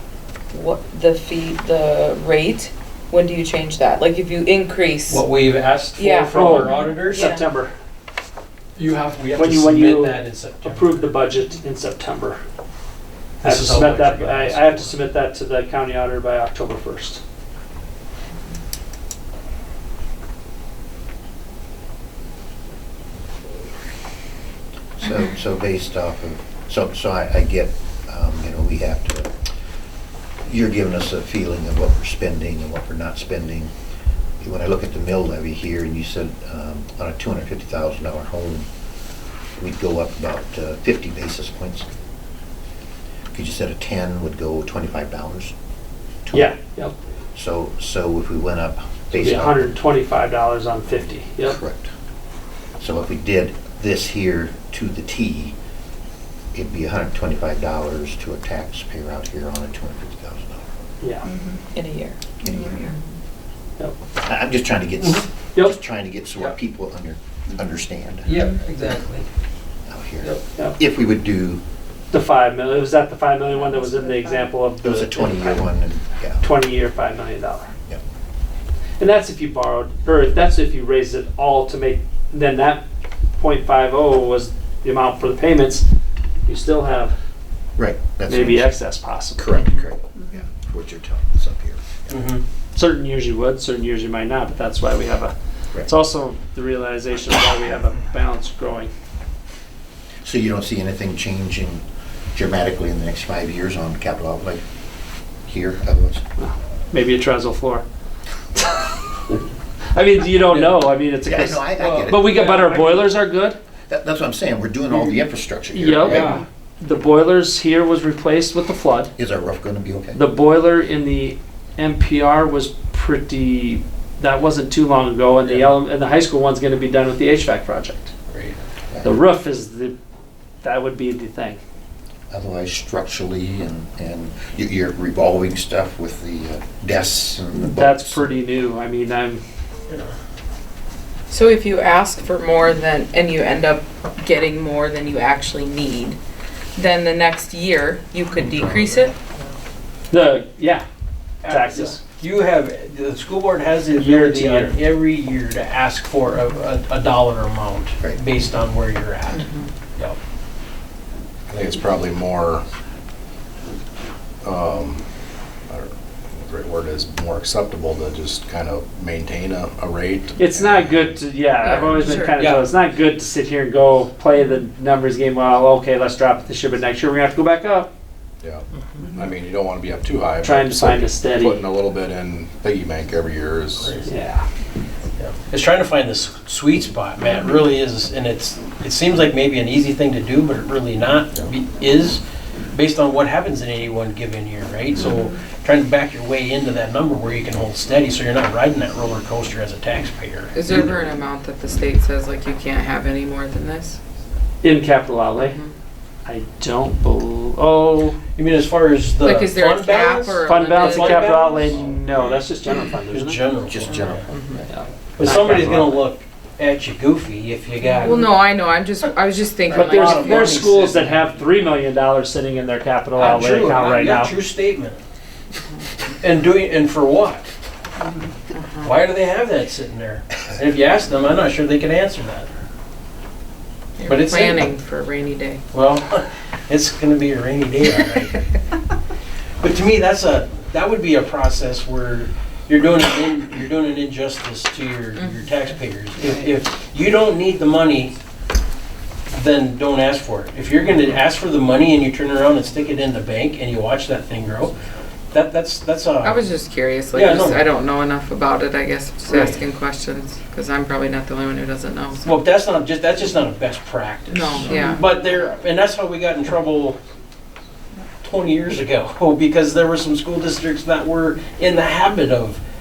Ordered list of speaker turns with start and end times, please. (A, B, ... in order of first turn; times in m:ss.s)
0:00.5-0:05.3 A
0:05.1-0:07.3 B
0:06.0-0:07.4 A
0:06.3-0:07.7 C
0:08.8-0:11.0 B
0:09.3-0:12.4 C
0:13.4-0:14.9 B
0:13.4-0:17.2 C
0:25.0-0:29.3 D
0:30.4-0:33.7 D
0:34.4-0:38.7 D
0:39.6-0:41.9 D
0:43.3-0:45.5 D
0:46.2-0:46.6 D
0:46.3-0:46.9 C
0:47.3-0:49.7 D
0:49.2-0:51.6 C
0:51.4-0:51.9 D
0:52.8-0:55.5 D
0:56.5-1:00.7 D
1:01.3-1:03.0 A
1:02.4-1:02.8 D
1:04.2-1:08.3 D
1:08.3-1:09.2 B
1:08.8-1:09.2 A
1:09.9-1:11.6 D
1:12.1-1:15.7 C
1:14.8-1:16.4 D
1:16.4-1:17.7 C
1:19.0-1:22.8 C
1:23.4-1:25.9 C
1:26.5-1:27.1 C
1:27.8-1:32.1 D
1:28.3-1:29.5 C
1:29.6-1:29.8 A
1:32.1-1:32.4 B
1:32.8-1:38.9 C
1:40.2-1:41.8 D
1:42.3-1:44.6 D
1:45.5-1:46.2 D
1:46.4-1:47.8 C
1:49.9-1:53.6 C
1:51.2-1:52.4 D
1:51.9-1:53.0 B
1:53.9-1:56.4 D
1:55.7-1:59.1 C
1:56.0-1:56.4 B
1:59.2-2:00.2 D
2:00.2-2:08.1 C
2:08.3-2:08.6 B
2:08.9-2:09.2 D
2:09.0-2:10.0 C
2:10.6-2:11.6 C
2:12.3-2:18.3 D
2:17.6-2:19.4 C
2:21.3-2:26.2 A
2:26.8-2:29.1 A
2:28.4-2:29.1 B
2:30.1-2:30.8 C
2:31.4-2:39.4 B
2:31.5-2:32.0 C
2:34.0-2:34.8 C
2:39.3-2:39.7 A
2:41.5-2:42.6 E
2:44.4-2:45.0 E
2:45.7-2:51.2 E
2:50.4-2:57.9 C
2:51.6-2:52.4 A
2:52.4-2:52.7 B
2:58.4-3:04.0 E
3:00.4-3:01.6 C
3:03.8-3:04.1 B
3:04.0-3:04.4 C
3:05.2-3:12.2 B
3:12.7-3:20.6 B
3:20.5-3:24.0 A
3:24.6-3:25.6 C
3:25.4-3:25.7 A
3:26.3-3:28.2 C
3:28.4-3:32.4 B
3:29.2-3:31.7 A
3:30.5-3:33.4 C
3:33.1-3:34.3 B
3:33.7-3:34.4 D
3:34.1-3:34.6 A
3:34.7-3:36.1 C
3:35.2-3:38.4 B
3:37.9-3:40.6 A
3:39.7-3:41.4 B
3:39.7-3:44.4 C
3:43.2-3:45.0 B
3:46.2-3:47.5 B
3:48.5-3:49.0 A
3:48.8-3:52.5 B
3:54.0-3:55.6 A
3:54.1-3:54.6 B
3:55.7-3:58.5 B
3:59.6-4:08.1 B
4:09.3-4:14.8 B
4:15.3-4:16.4 B
4:16.2-4:22.4 A
4:17.1-4:17.6 B
4:19.3-4:19.6 B
4:22.2-4:27.0 B
4:24.3-4:25.5 A
4:28.2-4:32.6 B